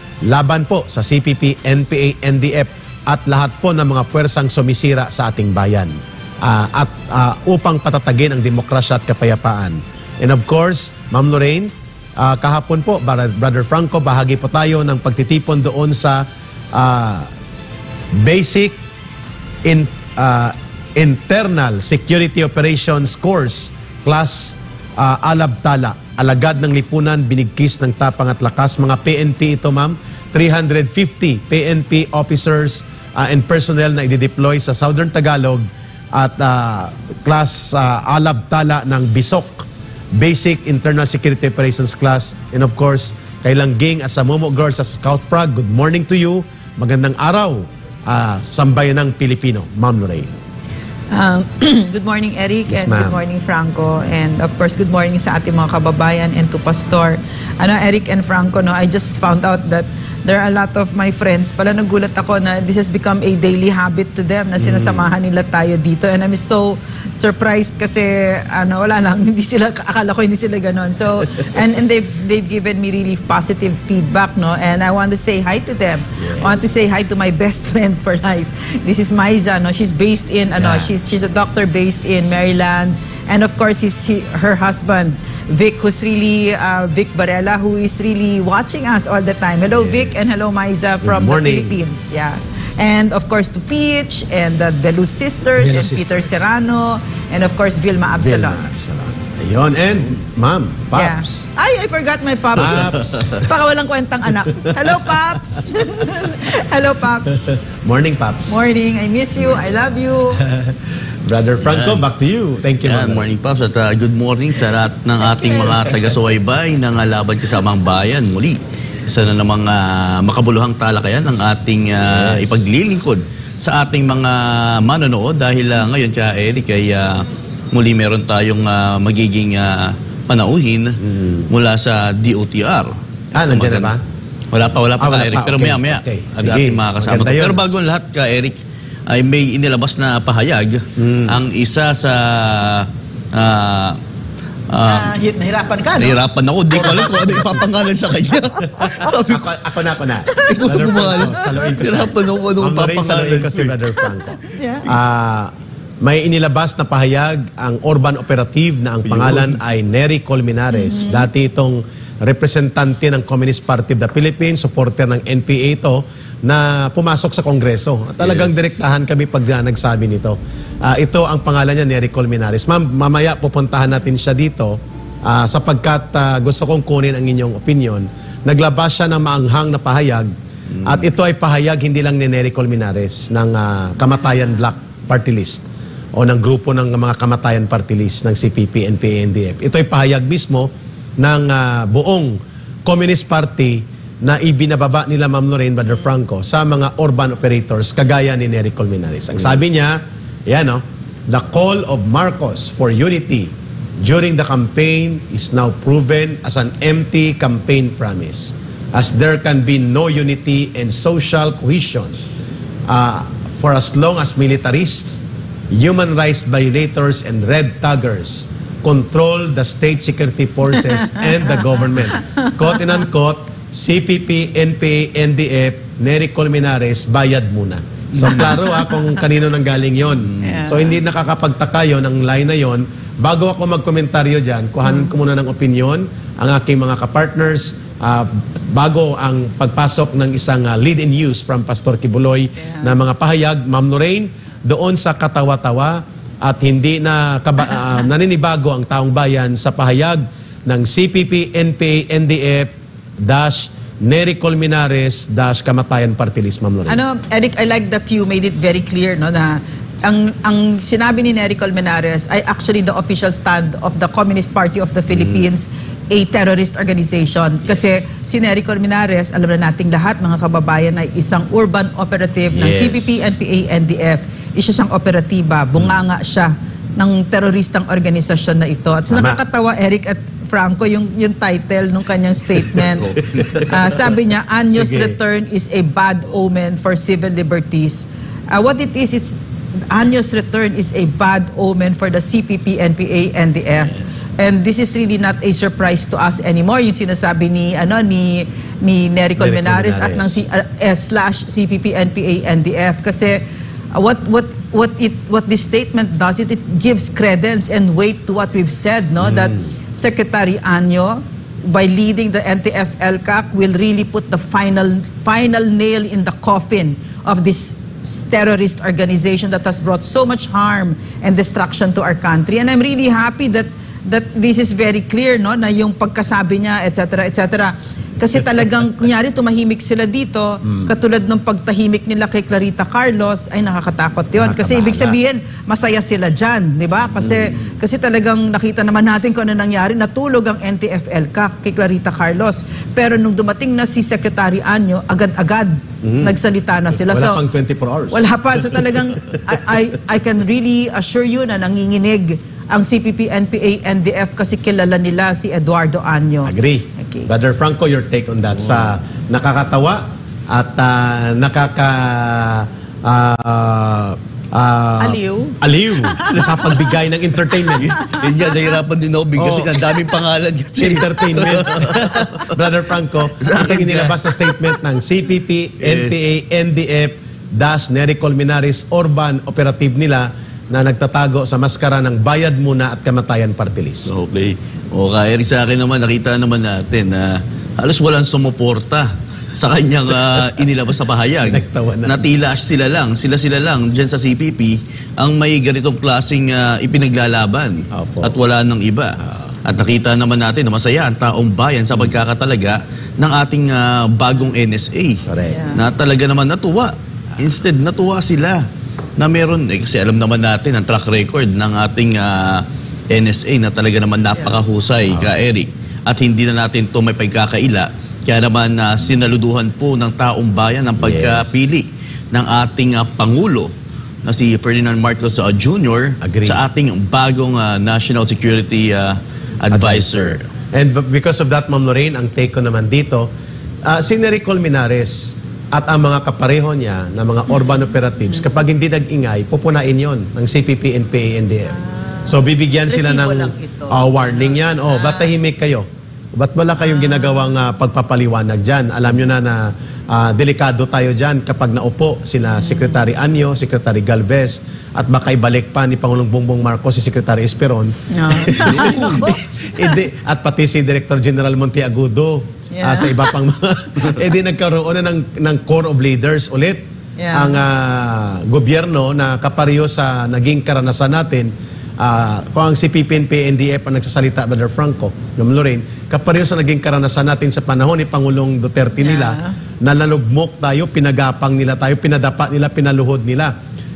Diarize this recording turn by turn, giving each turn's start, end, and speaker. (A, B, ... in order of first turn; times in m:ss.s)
0:00.3-0:17.3 A
0:18.2-0:18.8 A
0:19.6-0:50.3 A
0:51.1-1:38.6 B
0:52.7-0:53.2 A
1:04.6-1:05.1 A
1:16.2-1:16.7 A
1:20.6-1:20.9 A
1:29.7-1:30.3 A
1:31.0-1:31.8 A
1:35.6-1:36.4 A
1:38.2-1:41.5 A
1:41.0-1:47.5 B
1:42.5-1:43.5 A
1:42.7-1:43.2 C
1:44.6-1:45.2 A
1:47.4-1:48.6 A
1:48.5-1:50.4 B
1:49.4-1:49.9 A
1:50.4-1:53.3 A
1:51.6-1:52.0 C
1:52.8-2:12.9 C
1:55.2-1:55.9 B
2:02.0-2:02.6 A
2:11.0-2:11.5 A
2:13.3-2:14.0 A
2:13.5-2:13.9 C
2:14.5-2:18.6 C
2:15.0-2:17.6 A
2:19.1-2:24.0 C
2:21.0-2:21.4 A
2:24.7-2:25.2 C
2:24.8-2:26.2 B
2:26.0-2:29.6 C
2:26.7-2:27.6 A
2:28.7-2:29.2 B
2:28.7-2:35.5 A
2:30.3-2:33.8 C
2:34.4-2:34.9 B
2:36.0-3:00.3 A
2:39.1-2:39.6 C
2:40.7-2:41.3 B
2:48.2-2:48.6 C
3:00.7-3:01.1 C
3:00.8-3:32.2 A
3:32.9-3:35.2 A
3:35.7-4:17.0 A
3:41.0-3:42.9 B
3:48.1-3:48.6 C
3:48.7-3:49.2 B
3:50.2-3:50.7 C
3:50.4-3:51.0 B
3:54.8-3:55.1 B
4:02.6-4:03.0 B
4:16.9-4:49.4 B
4:25.1-4:25.5 A
4:32.5-4:33.3 A
4:39.1-4:39.4 A
4:43.0-4:43.9 C
4:44.7-4:45.2 A
4:49.9-5:03.4 B
4:59.4-5:00.4 A
5:03.9-5:47.4 B
5:09.2-5:09.7 A
5:30.6-5:30.9 A
5:34.4-5:35.2 A
5:37.2-5:37.6 A
5:46.0-5:46.4 A
5:47.0-5:48.2 A
5:48.1-5:57.3 B
5:56.4-6:08.0 A
6:05.0-6:06.9 B
6:07.9-6:08.6 B
6:08.0-6:12.6 C
6:09.4-6:09.7 A
6:10.8-6:24.1 A
6:13.4-6:14.8 C
6:15.8-6:16.2 C
6:24.1-6:48.6 C
6:31.4-6:32.2 A
6:37.9-6:38.3 A
6:39.2-6:39.5 A
6:45.3-6:45.6 A
6:45.5-6:45.8 B
6:49.2-7:03.7 C
6:54.4-6:54.6 B
7:01.0-7:01.7 A
7:04.2-7:10.5 C
7:06.2-7:06.6 A
7:09.7-7:13.3 A
7:13.9-7:21.8 A
7:17.5-7:18.5 B
7:21.7-7:25.3 B
7:22.3-8:03.5 A
7:26.8-7:27.6 B
7:32.6-7:33.0 B
7:38.2-7:40.0 B
7:38.6-7:39.3 C
7:42.7-7:43.3 B
7:47.2-7:47.6 B
7:59.0-7:59.6 B